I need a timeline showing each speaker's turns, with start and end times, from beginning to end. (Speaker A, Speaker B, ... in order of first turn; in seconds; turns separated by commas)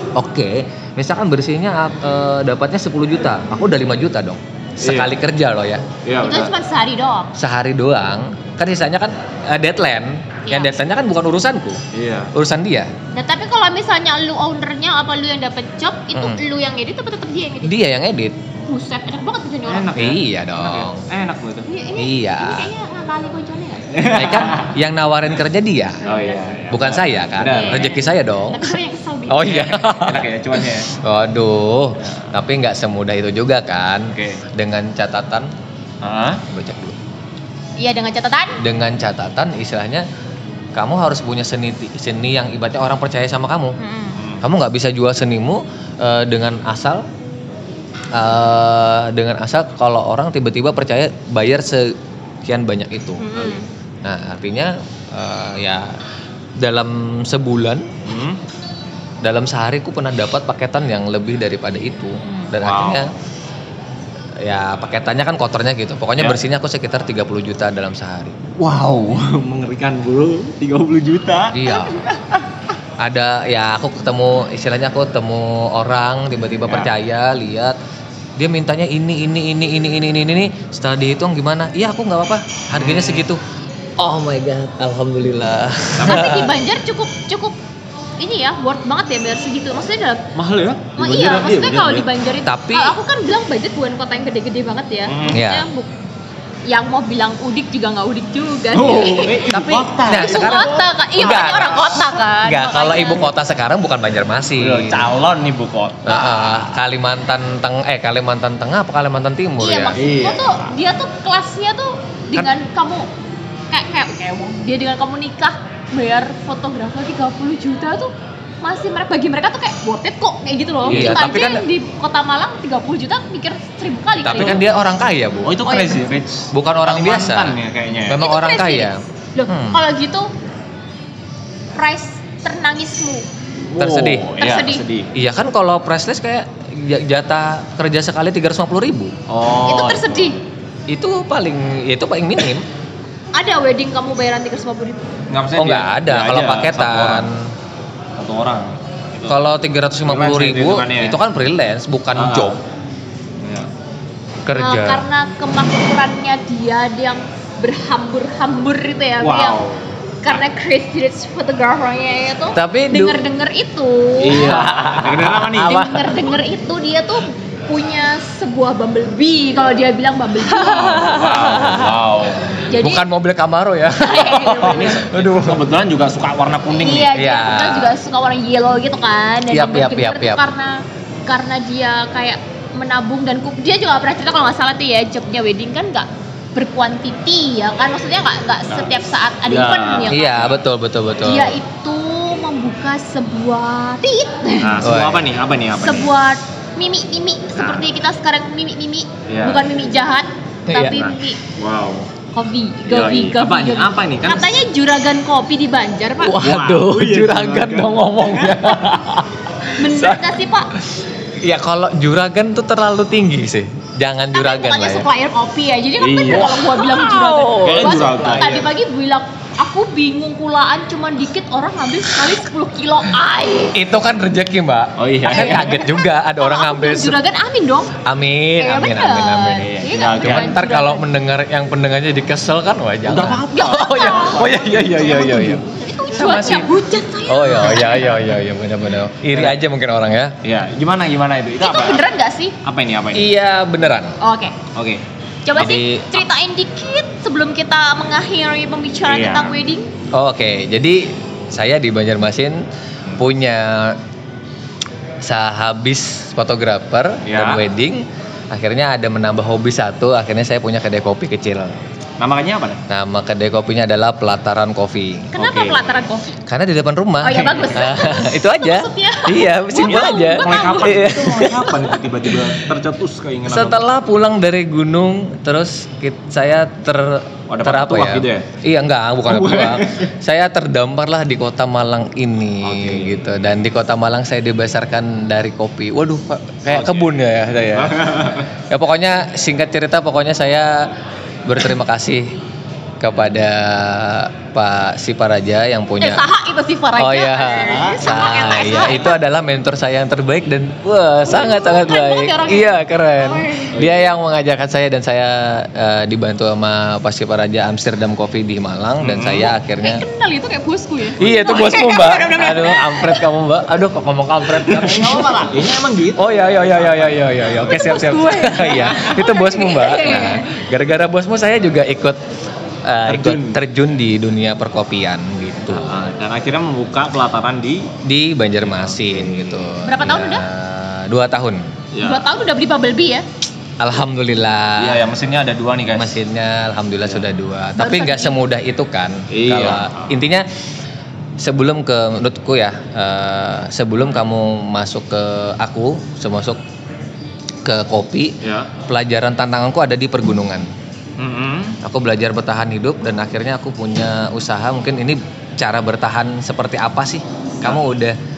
Speaker A: 0.2-5.9, Speaker B: 4.8-5.1, Speaker B: 6.0-6.5, Speaker C: 6.2-7.3, Speaker A: 7.4-11.8, Speaker C: 10.5-10.8, Speaker B: 11.9-12.3, Speaker A: 12.3-12.9, Speaker C: 13.1-17.8, Speaker A: 16.1-16.4, Speaker A: 17.6-18.4, Speaker C: 18.7-19.9, Speaker B: 19.7-21.7, Speaker A: 19.9-21.0, Speaker C: 21.7-24.5, Speaker A: 22.0-22.7, Speaker B: 23.9-24.8, Speaker A: 24.1-26.0, Speaker B: 26.0-27.9, Speaker C: 26.0-26.5, Speaker A: 26.7-28.8, Speaker C: 27.5-29.7, Speaker A: 29.3-35.5, Speaker B: 29.5-30.9, Speaker B: 34.1-34.4, Speaker B: 36.0-36.4, Speaker A: 36.5-37.0, Speaker C: 37.8-38.6, Speaker A: 38.6-40.1, Speaker A: 40.8-43.8, Speaker C: 43.8-44.2, Speaker B: 44.2-44.4, Speaker A: 44.4-47.1, Speaker A: 48.1-53.3, Speaker C: 53.2-53.7, Speaker A: 54.0-56.0, Speaker A: 56.6-57.9, Speaker B: 58.0-58.4, Speaker A: 59.2-63.1, Speaker C: 62.3-62.5, Speaker B: 62.6-63.0, Speaker A: 64.4-68.4, Speaker B: 68.6-72.4, Speaker A: 71.5-72.0, Speaker A: 73.0-77.8, Speaker A: 78.4-83.4, Speaker B: 82.7-83.3, Speaker A: 84.0-86.5, Speaker B: 86.0-86.3, Speaker C: 86.0-87.6, Speaker C: 88.2-90.3, Speaker B: 90.3-92.1, Speaker C: 91.0-95.9, Speaker A: 92.4-93.0, Speaker B: 95.1-95.4, Speaker A: 95.3-95.7, Speaker C: 96.7-99.5, Speaker B: 98.7-100.8, Speaker A: 99.5-105.1, Speaker C: 100.1-103.3, Speaker B: 104.6-106.5, Speaker A: 106.0-110.0, Speaker C: 109.6-113.1, Speaker B: 110.0-110.7, Speaker C: 113.7-118.1, Speaker C: 118.6-124.6, Speaker B: 120.8-121.4, Speaker A: 120.9-121.7, Speaker A: 124.2-125.7, Speaker B: 124.3-124.6, Speaker B: 125.5-128.2, Speaker C: 125.7-126.0, Speaker A: 126.5-129.8, Speaker C: 128.2-130.3, Speaker C: 131.8-133.3, Speaker B: 133.7-135.1, Speaker A: 133.8-134.3, Speaker C: 134.4-134.8, Speaker A: 135.1-139.2, Speaker B: 139.3-140.3, Speaker C: 139.7-140.4, Speaker A: 140.9-142.7, Speaker C: 143.3-145.1, Speaker B: 145.3-147.3, Speaker A: 145.6-147.5, Speaker B: 148.2-149.4, Speaker A: 149.3-152.6, Speaker B: 150.1-151.2, Speaker B: 152.2-152.6, Speaker B: 153.4-153.7, Speaker A: 154.4-155.1, Speaker C: 154.5-159.6, Speaker B: 159.2-160.4, Speaker C: 160.2-164.7, Speaker A: 162.5-163.2, Speaker B: 164.2-165.9, Speaker A: 164.3-166.3, Speaker C: 165.7-171.2, Speaker B: 170.6-172.7, Speaker A: 170.8-171.9, Speaker C: 172.7-173.1, Speaker A: 172.7-175.7, Speaker C: 174.0-175.0, Speaker B: 174.6-177.2, Speaker C: 176.7-190.6, Speaker A: 177.1-178.0, Speaker A: 179.5-180.5, Speaker B: 189.5-190.4, Speaker A: 190.1-191.6, Speaker C: 191.2-194.8, Speaker B: 194.6-196.1, Speaker A: 194.8-195.2, Speaker C: 195.8-201.4, Speaker B: 197.6-197.9, Speaker B: 199.3-199.7, Speaker A: 200.7-201.1, Speaker B: 200.9-202.1, Speaker C: 202.3-206.4, Speaker B: 202.9-204.6, Speaker A: 206.2-215.1, Speaker B: 206.3-209.0, Speaker C: 209.8-210.7, Speaker C: 214.3-223.8, Speaker B: 216.0-216.7, Speaker A: 216.3-218.7, Speaker B: 217.6-218.6, Speaker A: 223.7-227.2, Speaker B: 225.0-225.8, Speaker C: 225.3-227.9, Speaker A: 228.0-229.7, Speaker C: 228.6-231.1, Speaker B: 229.6-230.5, Speaker A: 230.2-236.8, Speaker B: 233.1-234.7, Speaker C: 233.5-238.2, Speaker A: 237.3-240.4, Speaker B: 240.4-242.1, Speaker C: 241.6-242.6, Speaker B: 242.6-243.3, Speaker A: 243.1-244.2, Speaker C: 244.2-244.6, Speaker B: 244.7-245.0, Speaker C: 245.5-249.9, Speaker A: 245.6-246.2, Speaker B: 249.1-249.6, Speaker A: 250.1-254.0, Speaker A: 255.2-261.8, Speaker B: 257.3-257.6, Speaker B: 262.2-262.8, Speaker A: 262.9-265.3, Speaker C: 265.3-266.3, Speaker B: 265.4-266.0, Speaker A: 266.5-272.5, Speaker C: 267.2-271.5, Speaker B: 267.4-267.8, Speaker B: 269.8-273.9, Speaker A: 273.5-290.9, Speaker B: 277.5-278.5, Speaker B: 279.3-280.1, Speaker B: 282.6-283.2, Speaker B: 286.7-287.1, Speaker B: 287.7-288.5, Speaker A: 291.5-292.4, Speaker A: 293.0-296.2, Speaker C: 296.0-299.2, Speaker A: 297.0-310.1, Speaker B: 297.5-298.9, Speaker C: 301.3-303.8, Speaker B: 303.7-304.1, Speaker B: 309.0-309.5, Speaker C: 309.8-313.2, Speaker A: 311.2-315.5, Speaker B: 314.5-317.9, Speaker A: 316.2-322.2, Speaker C: 317.6-320.5, Speaker A: 322.9-325.9, Speaker B: 323.1-323.6, Speaker B: 325.7-327.9, Speaker A: 328.0-331.7, Speaker B: 328.7-329.7, Speaker C: 329.8-330.5, Speaker B: 331.9-332.3, Speaker C: 332.0-333.2, Speaker A: 333.8-335.1, Speaker B: 334.8-336.1, Speaker A: 335.9-340.5, Speaker C: 337.8-338.4, Speaker B: 339.3-340.2, Speaker A: 341.4-346.6, Speaker A: 347.6-350.7, Speaker B: 348.4-348.7, Speaker B: 351.2-351.8, Speaker A: 351.8-358.2